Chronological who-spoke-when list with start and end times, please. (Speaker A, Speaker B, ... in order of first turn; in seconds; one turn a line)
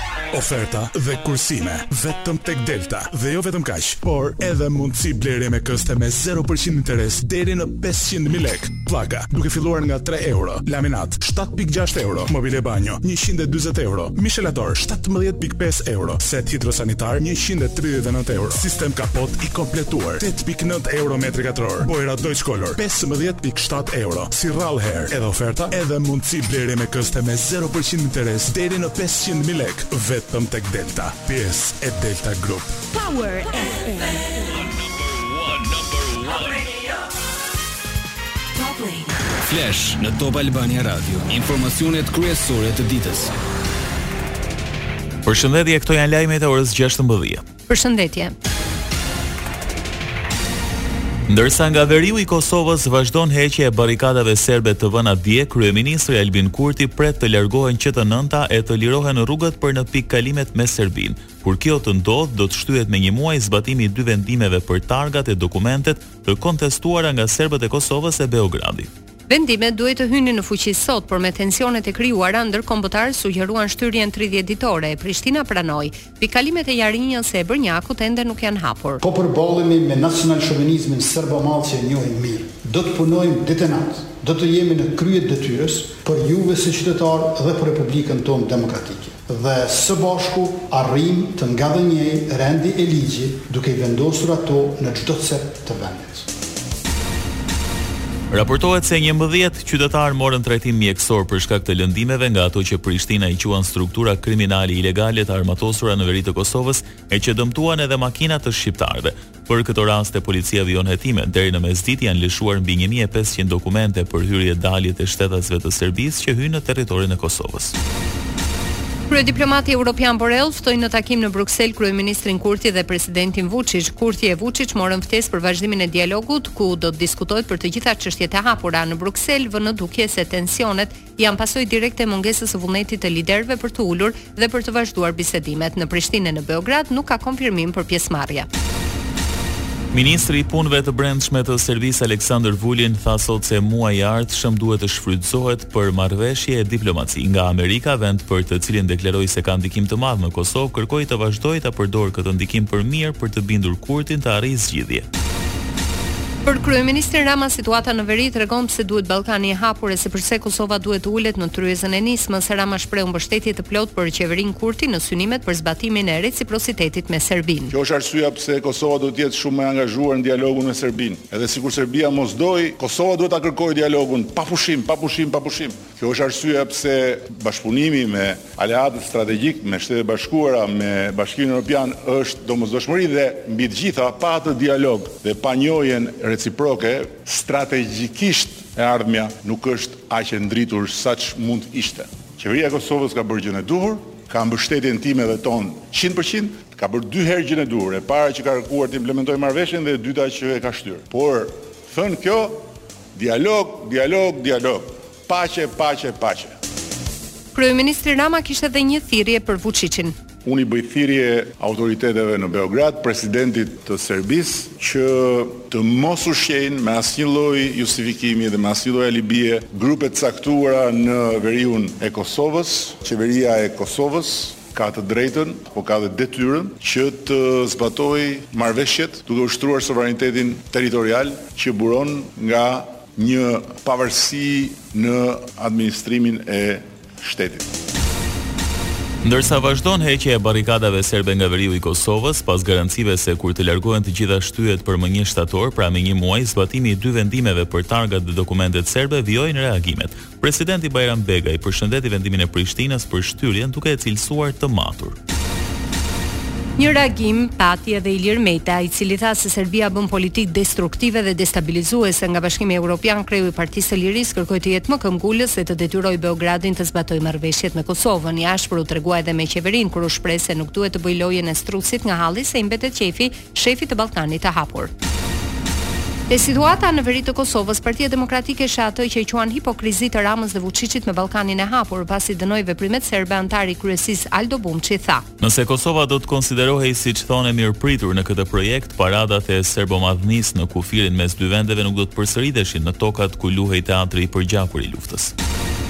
Speaker A: 0.3-32.7
Speaker B: 32.9-34.4
Speaker B: 38.5-39.1
Speaker C: 39.4-43.3
Speaker D: 45.2-47.4
Speaker E: 47.7-48.4
Speaker D: 51.3-68.9
Speaker E: 69.3-79.0
Speaker F: 79.0-96.3
Speaker D: 98.3-117.8
Speaker E: 119.1-138.5
Speaker D: 139.9-155.1
Speaker E: 156.4-167.7
Speaker G: 167.7-202.6
Speaker G: 203.2-206.5
Speaker E: 207.5-210.1
Speaker G: 210.4-237.7
Speaker D: 239.2-255.2
Speaker E: 256.8-274.9
Speaker E: 276.3-285.3
Speaker D: 285.4-295.3